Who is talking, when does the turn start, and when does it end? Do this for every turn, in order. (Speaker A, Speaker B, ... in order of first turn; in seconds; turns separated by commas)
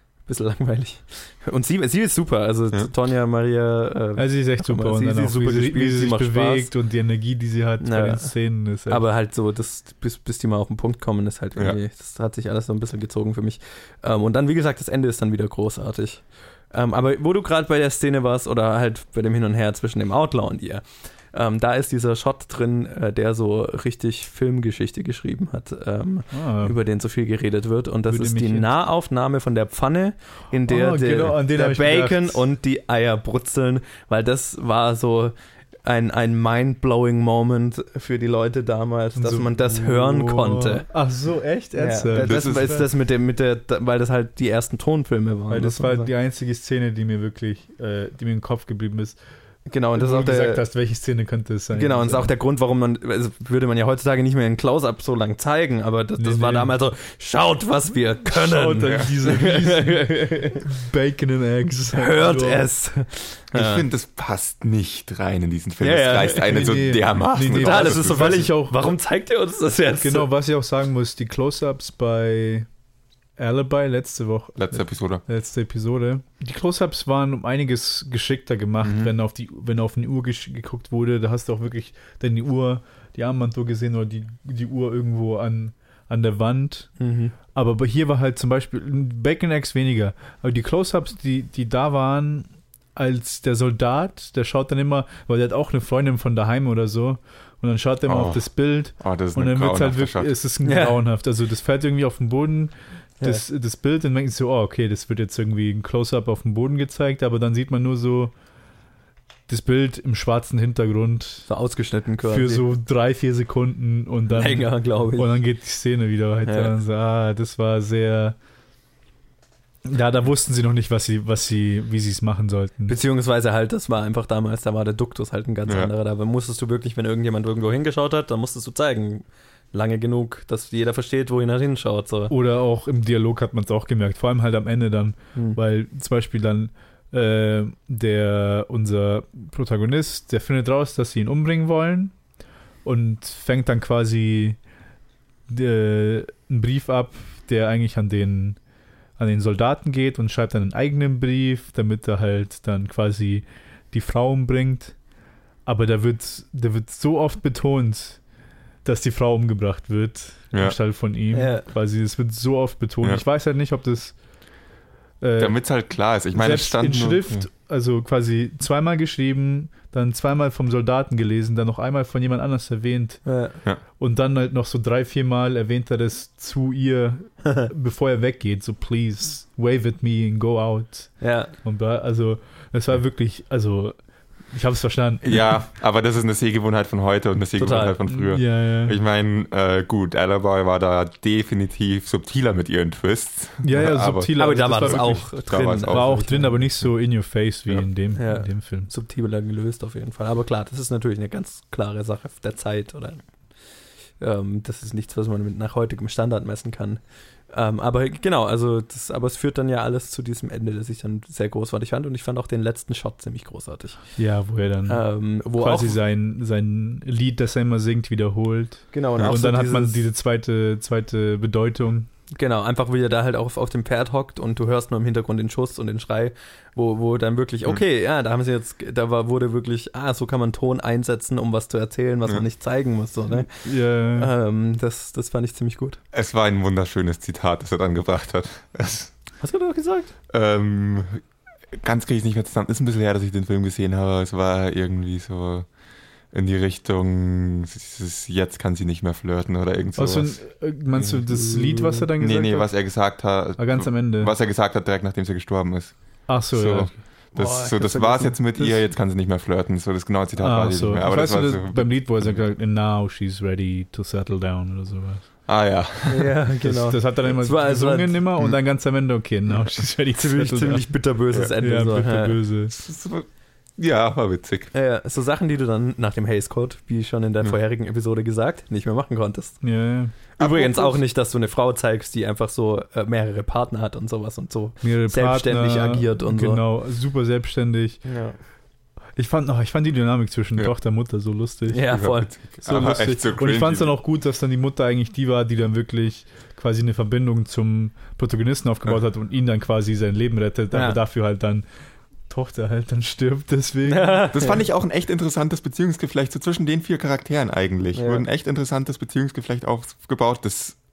Speaker A: 0.2-6.7, Speaker B: 4.2-9.0, Speaker A: 7.8-8.3, Speaker A: 8.9-40.9, Speaker B: 26.3-26.8, Speaker B: 28.1-28.7, Speaker B: 30.7-32.4, Speaker B: 39.2-42.9, Speaker A: 41.8-46.1, Speaker C: 42.2-42.8, Speaker B: 45.5-49.2, Speaker A: 49.7-50.6, Speaker B: 50.0-52.3, Speaker A: 51.7-60.7, Speaker B: 56.2-56.7, Speaker B: 58.3-62.7, Speaker C: 58.8-59.1, Speaker A: 61.9-63.8, Speaker C: 63.5-68.5, Speaker A: 65.8-66.6, Speaker B: 66.3-68.9, Speaker A: 67.5-70.3, Speaker B: 70.0-72.7, Speaker B: 73.4-87.0, Speaker C: 74.6-75.2, Speaker C: 78.8-79.1, Speaker A: 87.0-87.3, Speaker B: 87.5-108.3, Speaker C: 98.1-98.5, Speaker C: 99.0-100.3, Speaker A: 100.6-101.0, Speaker B: 109.5-111.5, Speaker A: 111.5-112.6, Speaker B: 112.2-118.4, Speaker A: 114.3-115.4, Speaker A: 116.5-116.7, Speaker B: 119.8-123.0, Speaker A: 122.9-132.3, Speaker B: 132.3-142.1, Speaker B: 142.8-144.6, Speaker B: 145.5-148.6, Speaker B: 149.2-154.9, Speaker B: 155.7-158.2, Speaker B: 158.8-164.2, Speaker A: 161.3-161.7, Speaker B: 165.2-165.6, Speaker C: 165.4-167.5, Speaker B: 166.3-173.3, Speaker A: 173.3-173.6, Speaker B: 174.0-184.0, Speaker A: 181.2-181.5, Speaker B: 184.5-185.6, Speaker C: 185.2-196.3, Speaker A: 187.6-188.0, Speaker B: 188.1-189.0, Speaker B: 193.6-198.9, Speaker A: 194.4-196.6, Speaker A: 198.2-203.2, Speaker A: 204.2-207.0, Speaker A: 207.5-214.0, Speaker B: 214.2-222.1, Speaker A: 214.9-216.0, Speaker A: 218.9-220.0, Speaker A: 222.3-236.0, Speaker B: 233.4-234.3, Speaker C: 236.1-239.1, Speaker A: 239.4-240.1, Speaker C: 240.3-245.7, Speaker C: 246.3-250.4, Speaker B: 250.0-252.7, Speaker A: 251.5-252.0, Speaker C: 252.2-262.4, Speaker B: 253.6-254.3, Speaker B: 256.3-257.0, Speaker A: 257.4-258.4, Speaker B: 260.4-265.3, Speaker C: 265.5-266.3, Speaker A: 266.1-268.2, Speaker B: 266.6-270.9, Speaker A: 270.2-272.4, Speaker B: 271.6-272.7, Speaker C: 272.7-274.7, Speaker A: 274.7-279.6, Speaker B: 279.6-280.2, Speaker A: 280.4-286.6, Speaker C: 280.4-281.0, Speaker B: 284.8-288.0, Speaker A: 288.1-288.4, Speaker B: 289.2-291.9, Speaker A: 291.7-292.3, Speaker C: 291.9-293.9, Speaker B: 292.6-301.6, Speaker A: 300.7-301.0, Speaker B: 302.3-304.3, Speaker A: 303.9-304.6, Speaker C: 304.3-310.8, Speaker A: 307.9-308.2